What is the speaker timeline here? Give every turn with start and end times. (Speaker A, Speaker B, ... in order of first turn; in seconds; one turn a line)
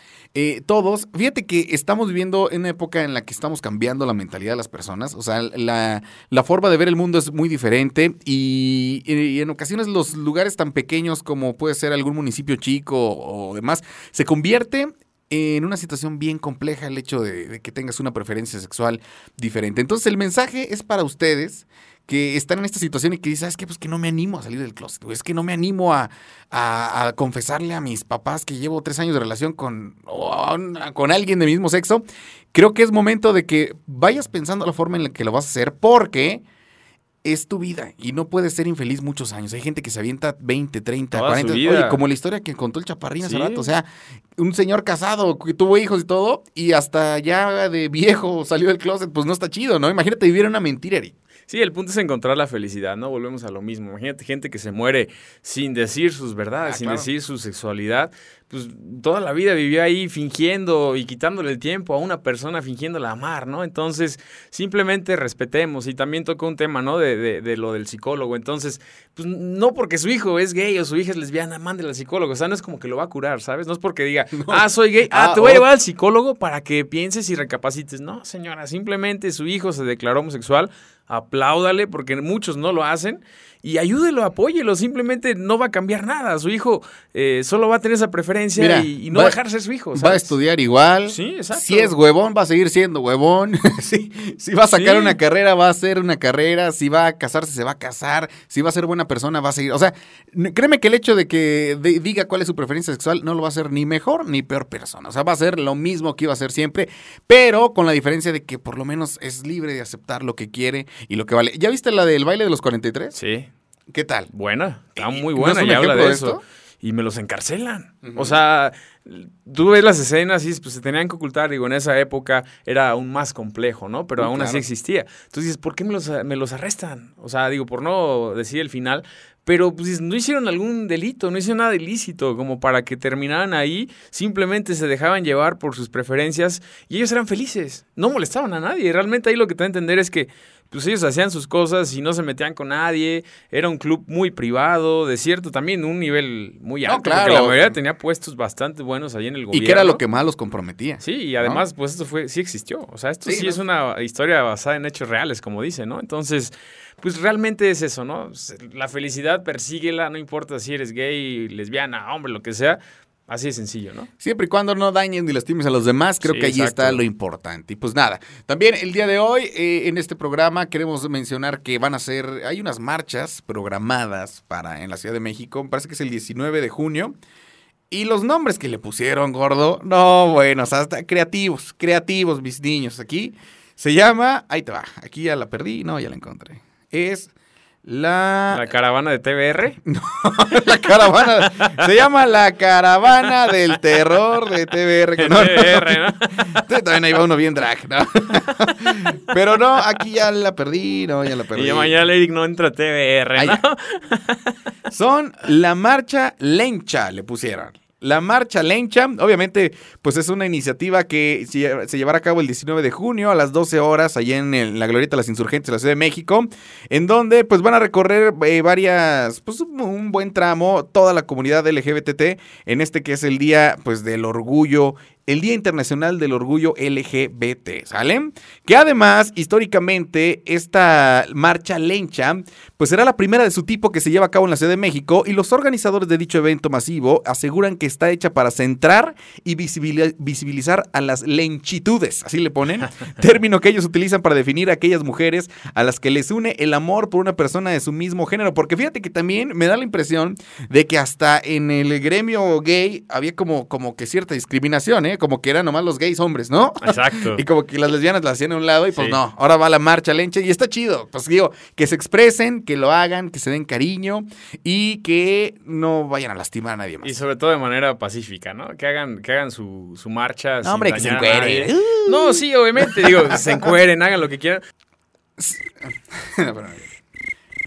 Speaker A: 0.3-36.4
Speaker A: 37.2-43.9
Speaker B: 41.1-42.0
Speaker B: 43.2-43.7
Speaker A: 44.4-51.1
Speaker B: 51.5-90.3
Speaker A: 56.6-57.1
Speaker A: 74.3-75.7
Speaker A: 88.6-89.3
Speaker A: 89.9-113.2
Speaker B: 91.1-91.9
Speaker B: 94.7-95.2
Speaker B: 113.2-113.5
Speaker A: 113.9-114.3
Speaker B: 114.3-150.0
Speaker A: 115.0-116.4
Speaker A: 118.0-118.4
Speaker A: 124.2-124.6
Speaker A: 146.8-147.7
Speaker A: 149.5-151.6
Speaker B: 151.0-164.1
Speaker A: 153.2-153.6
Speaker A: 164.2-177.1
Speaker B: 166.2-167.0
Speaker A: 177.9-187.3
Speaker A: 187.8-188.6
Speaker B: 188.5-189.8
Speaker A: 189.8-201.9
Speaker B: 191.0-191.8
Speaker B: 195.2-196.6
Speaker B: 201.5-204.5
Speaker A: 203.3-203.6
Speaker A: 204.9-267.1
Speaker B: 256.8-257.4
Speaker B: 267.0-274.6
Speaker A: 270.6-273.1
Speaker A: 275.4-276.9